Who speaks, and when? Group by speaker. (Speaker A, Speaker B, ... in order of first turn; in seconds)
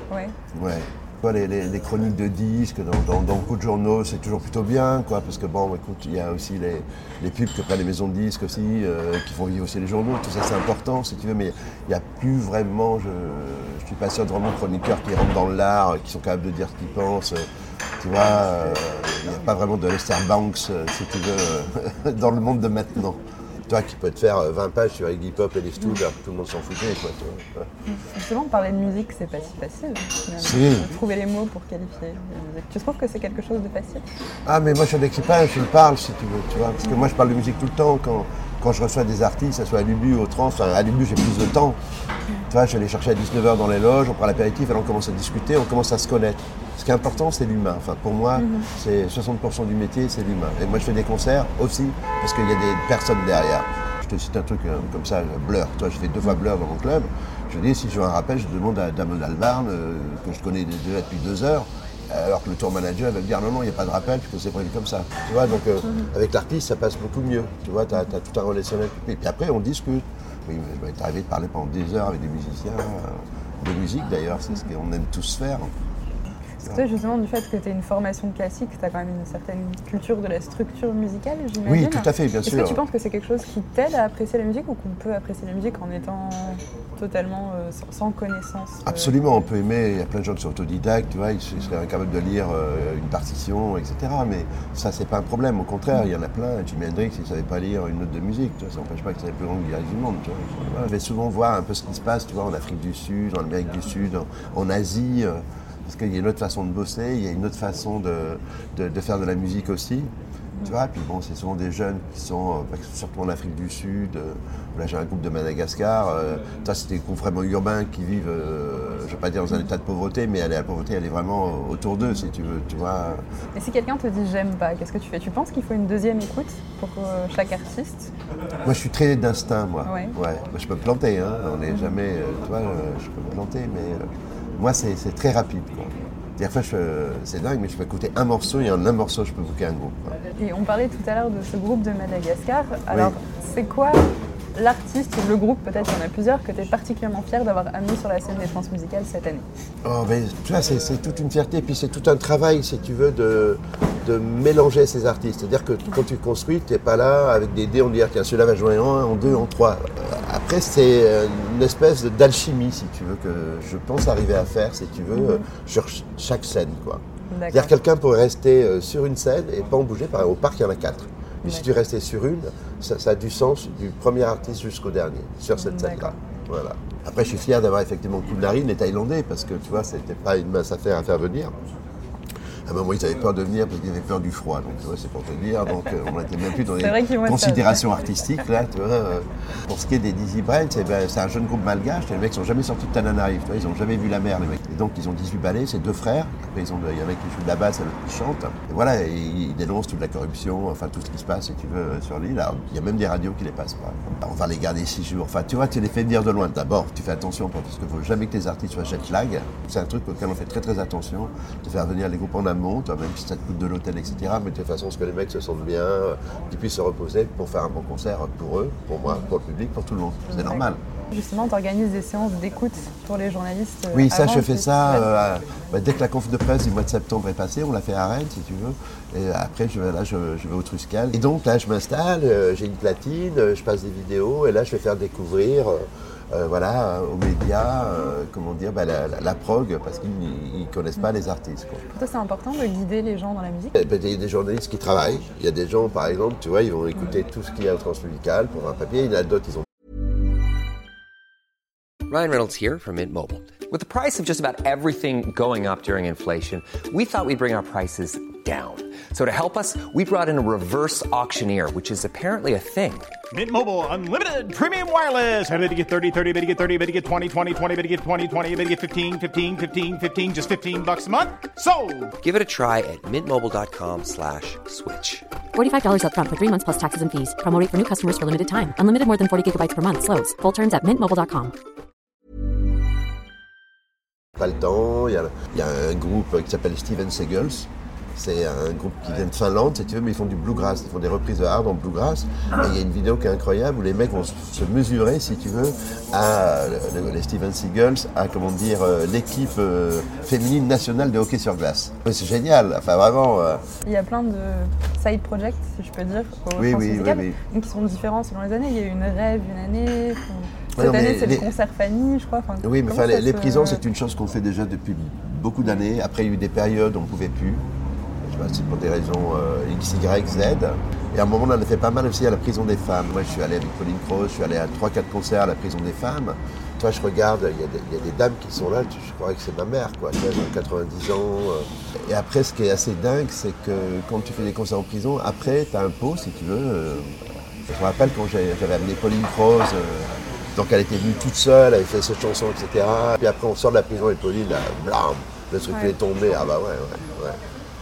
Speaker A: 0.1-0.4, 27.9-34.0, 48.4-48.7, 76.6-89.2, 123.6-128.1, 129.9-130.2, 140.4-149.5, 165.1-165.4, 167.3-167.7, 175.6-176.2, 186.6-188.0, 220.3-225.1, 241.9-243.8, 303.9-313.8, 345.7-345.9
Speaker B: 0.5-17.5, 18.0-27.7, 30.4-30.9, 34.5-41.8, 42.5-75.7, 81.7-82.8, 88.8-110.1, 110.6-123.2, 128.7-134.1, 134.6-140.2, 149.8-181.5, 182.7-220.8, 223.9-241.8, 243.8-249.7, 284.4-303.6, 306.6-307.4, 310.8-311.5, 312.6-317.6, 318.2-347.4
Speaker C: 252.1-263.1, 272.2-275.3
Speaker D: 263.3-272.1
Speaker E: 275.5-281.5